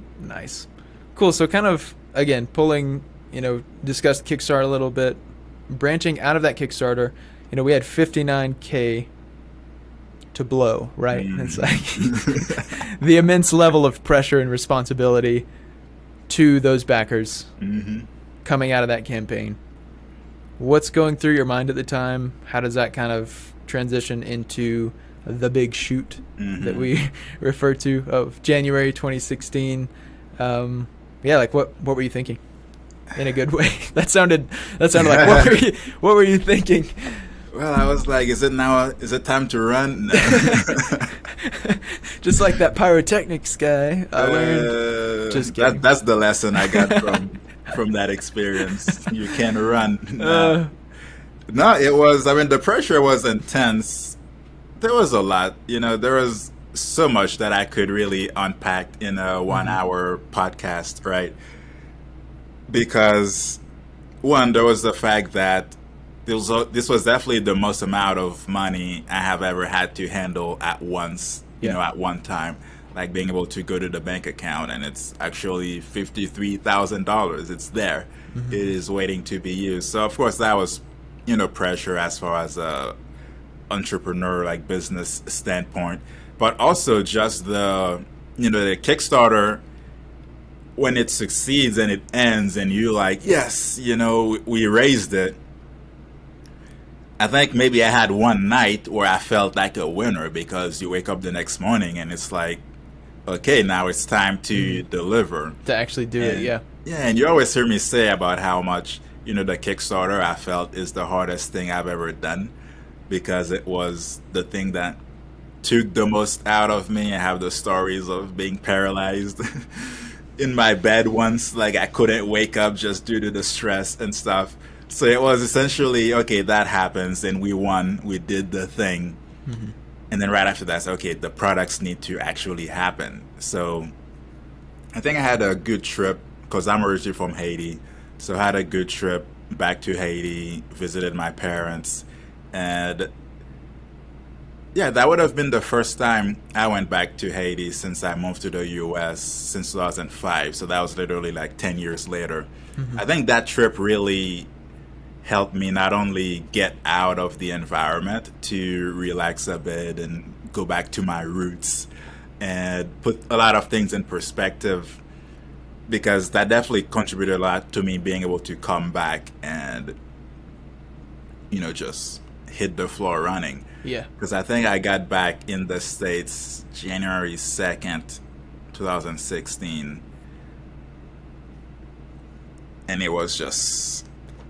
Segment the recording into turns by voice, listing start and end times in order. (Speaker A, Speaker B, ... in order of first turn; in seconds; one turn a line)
Speaker A: 0.2-9.1
Speaker A: 10.3-15.4
Speaker B: 11.1-12.8
Speaker A: 16.3-17.5
Speaker B: 17.6-18.1
Speaker A: 18.4-19.6
Speaker A: 20.6-32.4
Speaker B: 26.4-26.9
Speaker A: 33.1-37.3
Speaker B: 35.0-35.6
Speaker B: 37.5-41.1
Speaker A: 40.1-40.8
Speaker A: 41.3-44.8
Speaker B: 44.2-50.6
Speaker A: 45.3-45.8
Speaker A: 46.6-47.1
Speaker A: 50.2-50.7
Speaker B: 51.5-54.2
Speaker B: 54.8-61.4
Speaker A: 59.5-59.8
Speaker B: 62.7-63.6
Speaker B: 64.2-83.0
Speaker A: 78.3-78.6
Speaker B: 83.7-89.6
Speaker B: 90.8-95.4
Speaker B: 97.2-102.6
Speaker B: 103.2-105.6
Speaker A: 104.5-104.8
Speaker A: 105.7-106.6
Speaker B: 106.2-112.5
Speaker B: 113.1-115.0
Speaker B: 115.6-129.2
Speaker A: 129.4-129.7
Speaker B: 130.1-133.9
Speaker B: 134.9-143.1
Speaker B: 144.7-154.5
Speaker A: 152.8-153.0
Speaker B: 155.2-161.9
Speaker B: 162.4-165.0
Speaker B: 165.9-169.9
Speaker B: 171.5-173.6
Speaker B: 174.2-178.2
Speaker B: 178.7-180.0
Speaker B: 182.9-184.1